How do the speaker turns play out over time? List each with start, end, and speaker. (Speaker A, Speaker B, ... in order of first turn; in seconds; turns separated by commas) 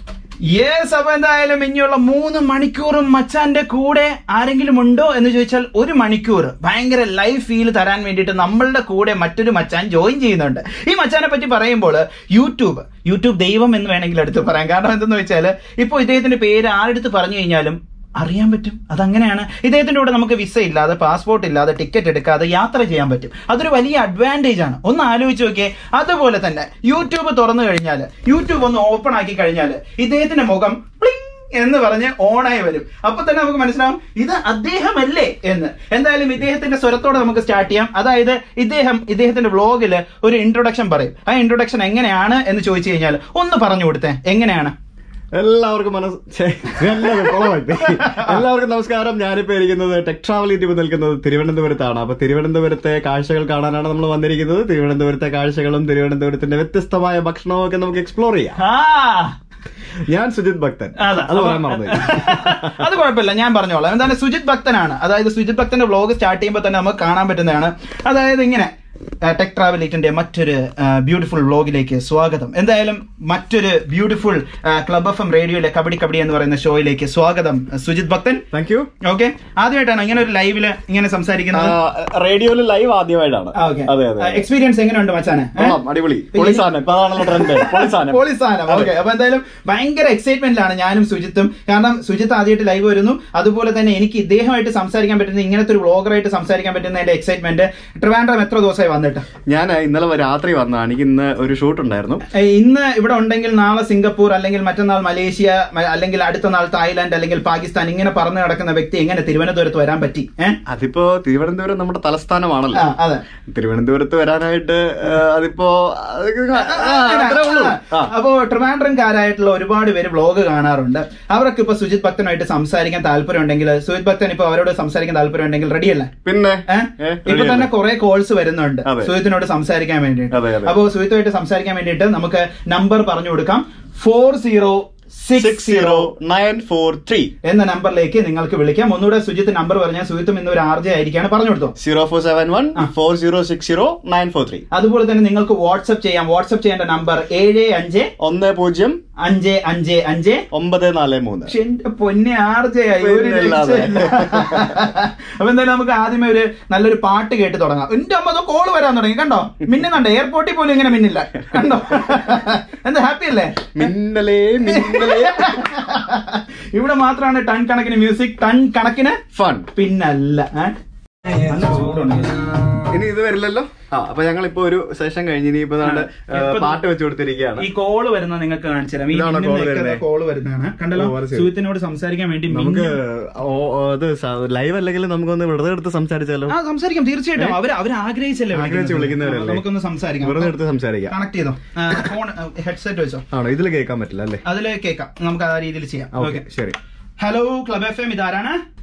Speaker A: 0.5-44.7, Speaker B: 45.3-58.6, Speaker A: 47.9-48.4, Speaker A: 58.6-59.3, Speaker B: 60.1-62.8, Speaker A: 61.0-78.4, Speaker B: 78.5-78.9, Speaker A: 79.0-81.8, Speaker B: 81.5-84.4, Speaker A: 83.5-85.8, Speaker B: 85.5-88.9, Speaker A: 86.3-99.2, Speaker B: 99.5-102.2, Speaker A: 102.3-110.6, Speaker B: 110.7-112.9, Speaker A: 112.7-113.2, Speaker B: 113.5-118.1, Speaker A: 116.5-126.1, Speaker B: 126.2-127.7, Speaker A: 126.7-136.1, Speaker B: 128.8-129.2, Speaker B: 130.3-130.8, Speaker B: 135.3-137.3, Speaker A: 137.4-141.7, Speaker B: 141.8-144.6, Speaker A: 144.7-148.1, Speaker B: 148.2-149.0, Speaker A: 149.2-150.4, Speaker B: 150.5-151.5, Speaker A: 151.5-163.9, Speaker B: 153.0-154.7, Speaker B: 163.8-165.6, Speaker A: 164.7-169.2, Speaker B: 169.3-169.7, Speaker A: 169.7-170.8, Speaker A: 171.3-172.8, Speaker B: 172.9-177.7, Speaker A: 175.8-176.8, Speaker A: 177.6-182.9, Speaker B: 179.1-180.0, Speaker B: 180.9-181.5, Speaker B: 182.5-186.6, Speaker A: 186.5-190.5, Speaker B: 188.5-189.7, Speaker B: 190.2-191.2, Speaker A: 191.1-193.2, Speaker B: 193.3-194.4, Speaker A: 194.4-196.4, Speaker B: 196.1-196.8, Speaker A: 197.2-198.6